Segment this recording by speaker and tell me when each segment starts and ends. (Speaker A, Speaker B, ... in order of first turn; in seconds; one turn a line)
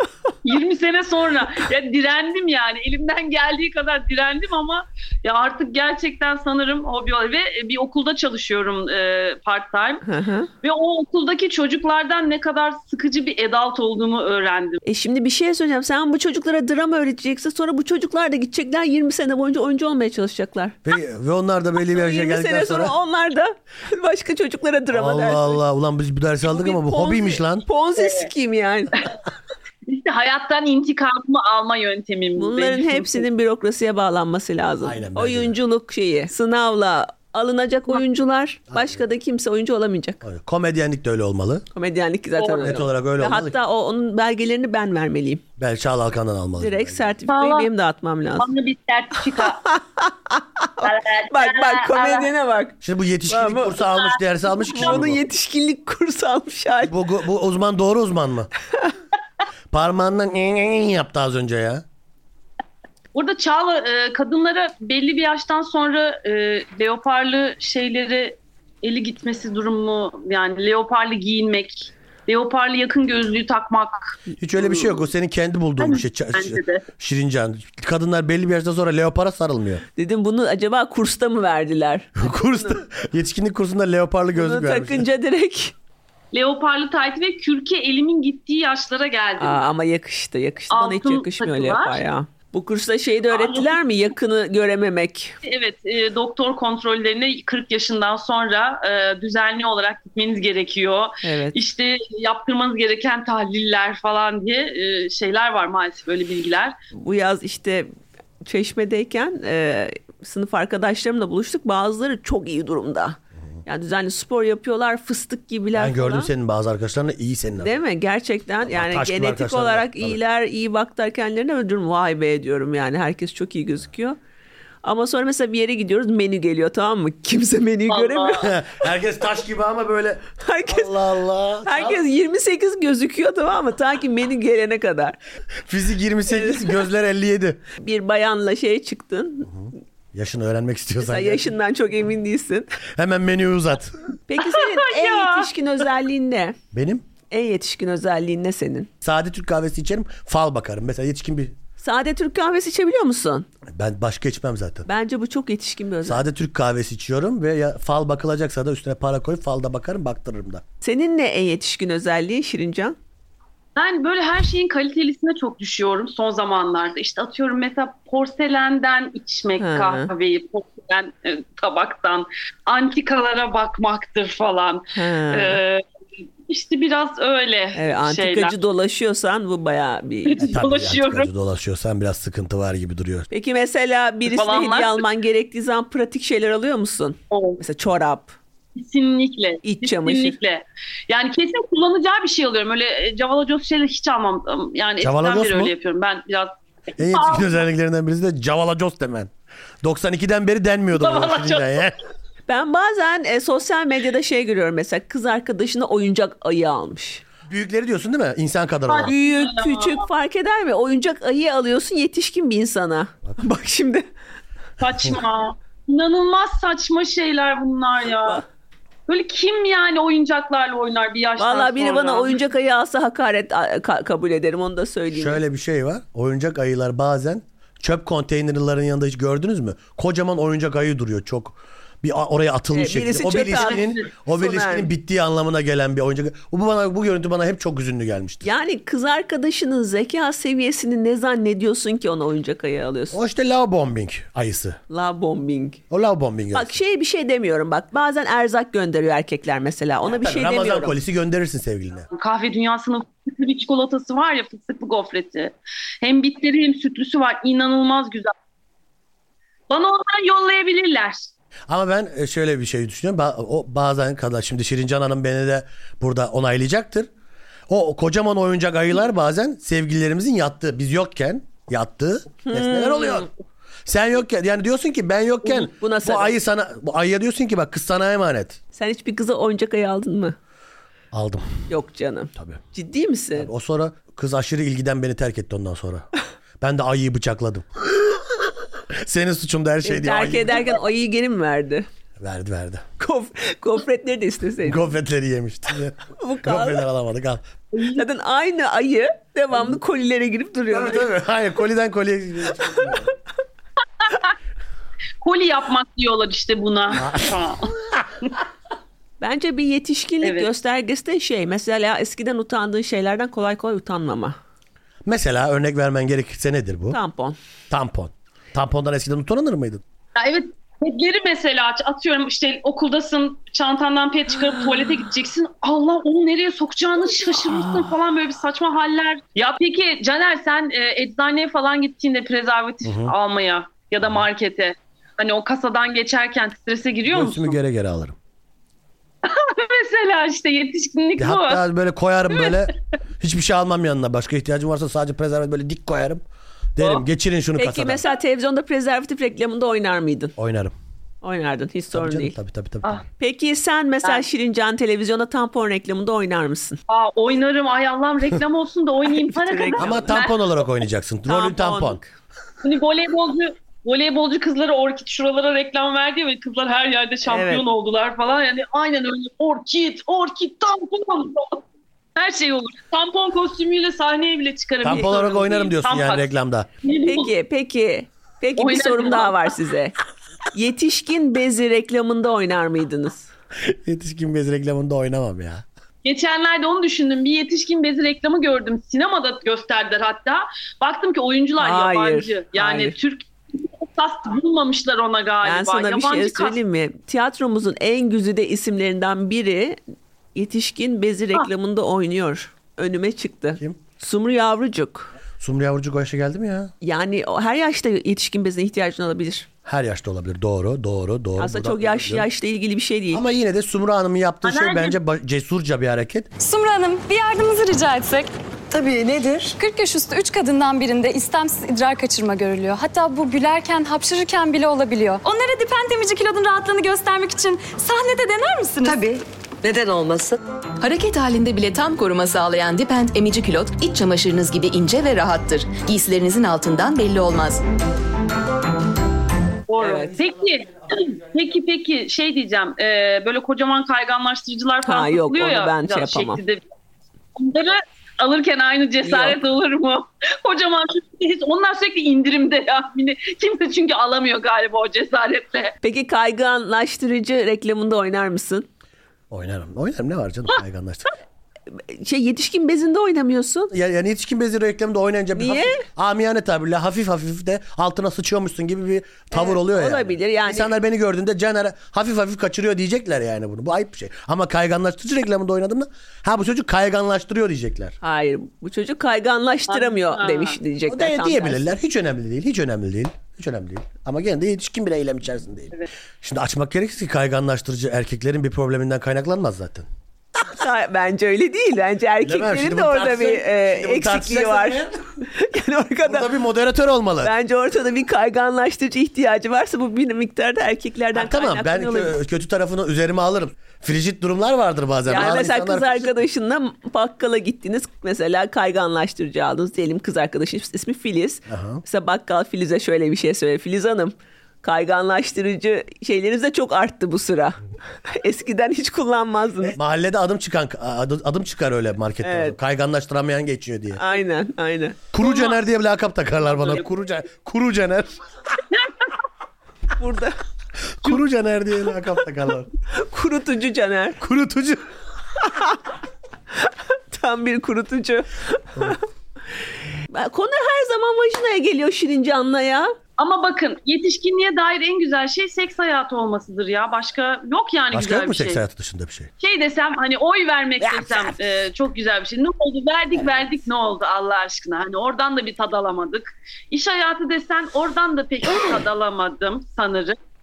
Speaker A: 0.4-10.1
Speaker B: 10.1-10.5
Speaker A: 10.6-14.8
Speaker B: 14.8-20.8
Speaker C: 20.9-22.9
Speaker B: 21.9-25.6
Speaker C: 24.9-27.7
Speaker B: 26.4-29.0
Speaker A: 28.0-28.3
Speaker A: 29.9-33.3
Speaker B: 32.4-40.2
Speaker C: 34.8-35.6
Speaker C: 38.7-39.0
Speaker C: 40.2-41.7
Speaker B: 41.7-45.4
Speaker A: 42.4-42.7
Speaker C: 42.6-43.5
Speaker C: 45.6-47.2
Speaker B: 46.6-48.5
Speaker A: 47.3-47.7
Speaker A: 48.4-49.6
Speaker B: 49.3-52.8
Speaker A: 50.8-52.3
Speaker C: 52.8-55.2
Speaker B: 53.3-53.8
Speaker B: 54.7-57.0
Speaker C: 56.8-58.5
Speaker C: 59.7-61.8
Speaker A: 63.1-75.0
Speaker C: 74.4-79.8
Speaker A: 75.8-76.8
Speaker B: 80.0-82.8
Speaker C: 82.2-85.1
Speaker B: 84.3-85.8
Speaker A: 86.3-89.6
Speaker B: 89.4-95.4
Speaker A: 90.7-92.0
Speaker A: 93.3-93.8
Speaker A: 95.4-106.8
Speaker B: 101.2-101.6
Speaker B: 107.0-107.9
Speaker B: 108.4-116.3
Speaker C: 115.8-117.8
Speaker B: 117.6-124.2
Speaker C: 118.7-120.2
Speaker B: 124.8-128.5
Speaker A: 127.9-128.5
Speaker C: 128.4-132.0
Speaker B: 130.4-130.9
Speaker B: 131.7-135.2
Speaker C: 135.7-137.6
Speaker B: 136.3-136.6
Speaker B: 137.8-139.5
Speaker C: 139.5-141.5
Speaker B: 141.0-142.7
Speaker C: 142.9-144.0
Speaker B: 144.3-146.6
Speaker A: 144.4-145.5
Speaker C: 146.7-147.1
Speaker B: 147.3-148.9
Speaker C: 149.0-151.6
Speaker B: 151.8-153.5
Speaker C: 153.7-154.9
Speaker B: 154.9-156.2
Speaker C: 156.0-160.6
Speaker B: 160.8-163.0
Speaker A: 163.8-175.8
Speaker B: 169.6-170.1
Speaker B: 174.9-175.6
Speaker A: 176.5-178.5
Speaker B: 177.7-180.5
Speaker A: 180.3-181.3
Speaker C: 180.4-183.3
Speaker B: 183.3-188.3
Speaker A: 184.3-185.0
Speaker A: 187.3-187.6
Speaker A: 188.8-197.5
Speaker B: 189.6-190.4
Speaker C: 195.0-195.7
Speaker C: 197.0-199.3
Speaker C: 199.8-202.0
Speaker A: 201.0-201.8
Speaker B: 202.5-207.2
Speaker C: 207.5-209.1
Speaker A: 208.9-210.0
Speaker B: 209.1-214.0
Speaker A: 214.8-218.4
Speaker A: 219.1-222.4
Speaker B: 221.4-225.4
Speaker C: 225.1-238.5
Speaker B: 232.7-234.9
Speaker A: 233.7-233.9
Speaker B: 238.4-243.2
Speaker C: 243.1-244.8
Speaker B: 244.9-245.8
Speaker C: 245.9-246.8
Speaker B: 246.5-250.9
Speaker C: 250.1-252.1
Speaker A: 252.1-258.3
Speaker A: 259.7-261.3
Speaker C: 261.7-267.1
Speaker C: 267.7-273.3
Speaker B: 272.5-273.3
Speaker C: 273.9-278.6
Speaker B: 275.4-276.4
Speaker B: 278.7-280.4
Speaker C: 281.1-281.7
Speaker B: 281.7-283.5
Speaker C: 282.4-282.6
Speaker C: 283.4-286.1
Speaker C: 286.6-290.8
Speaker B: 289.9-291.9
Speaker C: 292.2-292.9
Speaker B: 293.0-294.9
Speaker C: 294.6-297.4
Speaker B: 296.2-296.8
Speaker A: 297.7-298.1
Speaker B: 298.0-301.1
Speaker C: 300.7-303.1
Speaker A: 304.0-304.3
Speaker A: 305.2-307.7
Speaker C: 306.9-307.4
Speaker B: 309.2-314.4
Speaker A: 310.2-310.5
Speaker C: 315.1-317.0
Speaker B: 316.9-317.4
Speaker C: 317.7-319.8
Speaker A: 320.2-337.6
Speaker B: 327.6-327.9
Speaker C: 332.8-333.1
Speaker C: 337.1-338.2
Speaker A: 339.2-341.6
Speaker C: 341.2-346.2
Speaker A: 342.4-342.7
Speaker C: 346.8-348.0
Speaker B: 347.6-350.3
Speaker C: 350.4-350.7
Speaker B: 351.2-352.4
Speaker C: 351.9-353.0
Speaker B: 353.2-356.8
Speaker A: 356.9-360.4
Speaker B: 359.1-360.1
Speaker C: 359.8-362.0
Speaker B: 361.3-362.1
Speaker A: 362.6-371.6
Speaker B: 367.2-367.7
Speaker A: 372.2-376.3
Speaker C: 374.8-376.7
Speaker A: 376.8-377.3
Speaker B: 377.1-379.9
Speaker A: 378.6-379.5
Speaker B: 380.5-383.3
Speaker C: 383.6-385.6
Speaker A: 386.0-396.6
Speaker B: 391.6-393.0
Speaker B: 395.4-399.8
Speaker B: 400.4-405.1
Speaker C: 405.4-406.7
Speaker B: 406.8-409.5
Speaker C: 409.7-412.3
Speaker B: 411.4-413.2
Speaker C: 413.1-416.3
Speaker A: 414.4-415.0
Speaker D: 416.4-418.3
Speaker E: 418.7-419.6
Speaker D: 419.6-429.0
Speaker E: 428.9-430.4
Speaker F: 430.8-437.6
Speaker A: 439.7-446.6
Speaker B: 439.8-440.1
Speaker B: 444.8-446.4
Speaker A: 447.4-455.7
Speaker B: 449.0-449.4
Speaker B: 455.8-458.7
Speaker C: 459.3-461.1
Speaker B: 461.7-463.7
Speaker C: 463.7-478.0
Speaker B: 465.3-465.8
Speaker B: 469.3-470.7
Speaker B: 478.0-481.7
Speaker A: 479.7-480.6
Speaker C: 480.9-489.9
Speaker B: 490.4-496.3
Speaker C: 492.2-494.9
Speaker C: 496.0-497.3
Speaker B: 497.2-502.2
Speaker C: 501.1-506.2
Speaker B: 505.1-519.8
Speaker C: 511.5-511.8
Speaker C: 519.6-524.0
Speaker B: 522.2-522.6
Speaker B: 524.0-525.0
Speaker C: 525.1-528.2
Speaker A: 525.2-525.6
Speaker A: 526.5-526.8
Speaker B: 530.0-530.4
Speaker C: 531.0-532.7
Speaker B: 532.9-534.2
Speaker C: 534.2-534.9
Speaker B: 535.5-535.8
Speaker B: 536.6-539.0
Speaker B: 540.1-543.0
Speaker A: 543.2-548.6
Speaker C: 547.9-549.3
Speaker A: 549.4-560.2
Speaker C: 550.9-551.3